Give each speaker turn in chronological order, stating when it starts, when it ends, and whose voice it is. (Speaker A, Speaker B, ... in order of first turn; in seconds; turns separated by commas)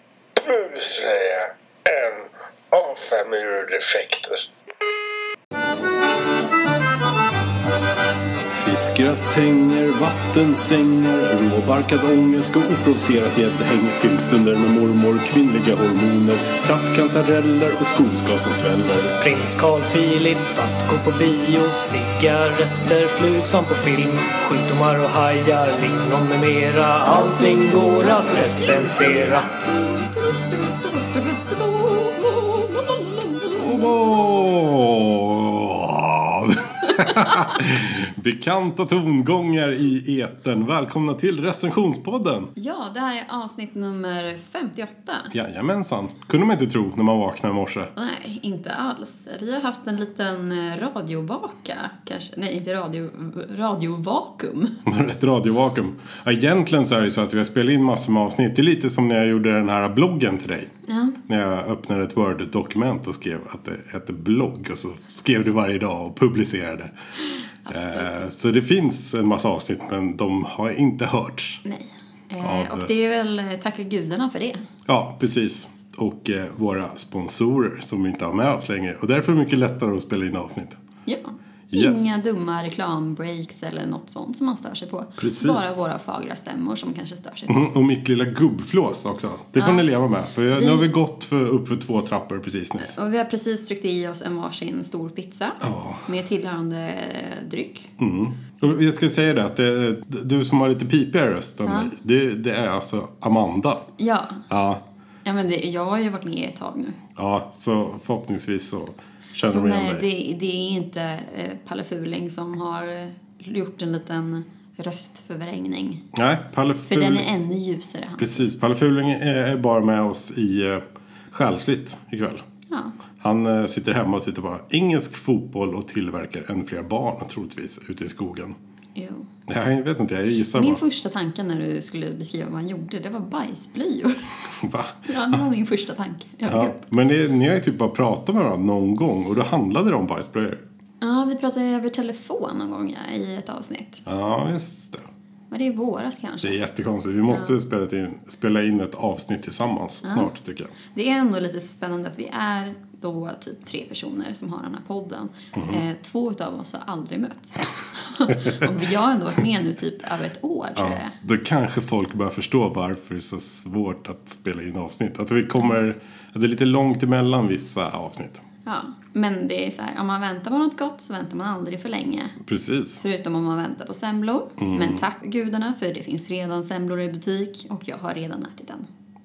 Speaker A: 0.4-4.4, Speaker B: 8.4-19.2, Speaker C: 19.2-29.5, Speaker D: 27.1-33.9, Speaker B: 33.5-42.5, Speaker D: 36.9-37.4, Speaker D: 42.5-45.3, Speaker B: 45.3-47.9, Speaker D: 48.0-54.8, Speaker B: 54.8-60.7, Speaker D: 60.9-61.2, Speaker B: 61.3-66.9, Speaker D: 67.7-68.2, Speaker B: 67.7-71.6, Speaker D: 71.6-74.7, Speaker B: 72.4-72.9, Speaker B: 74.8-80.8, Speaker D: 81.1-87.7, Speaker B: 81.7-82.1, Speaker B: 85.2-85.7, Speaker B: 87.5-92.9, Speaker D: 89.6-89.8, Speaker D: 90.5-90.8, Speaker D: 92.8-97.9, Speaker B: 95.6-96.1, Speaker B: 98.0-103.9, Speaker D: 101.6-101.9, Speaker D: 104.0-104.4, Speaker B: 104.5-104.8, Speaker D: 105.2-107.0, Speaker B: 107.2-110.1, Speaker D: 109.4-116.0, Speaker B: 116.1-117.3, Speaker D: 116.9-118.6, Speaker B: 118.2-122.4, Speaker D: 122.7-122.9, Speaker B: 123.2-128.6, Speaker D: 128.9-129.3, Speaker B: 129.5-130.8, Speaker D: 130.5-134.3, Speaker B: 134.6-135.4, Speaker D: 134.9-136.8, Speaker B: 136.4-140.6, Speaker D: 141.0-144.0, Speaker B: 144.1-145.1, Speaker D: 145.5-146.6, Speaker B: 146.4-150.7, Speaker D: 147.3-147.6, Speaker D: 150.0-150.3, Speaker D: 150.9-161.1, Speaker B: 155.5-155.8, Speaker B: 158.3-158.7, Speaker B: 160.8-168.4, Speaker D: 168.7-172.3, Speaker B: 172.4-173.0, Speaker D: 173.0-178.9, Speaker B: 174.6-175.0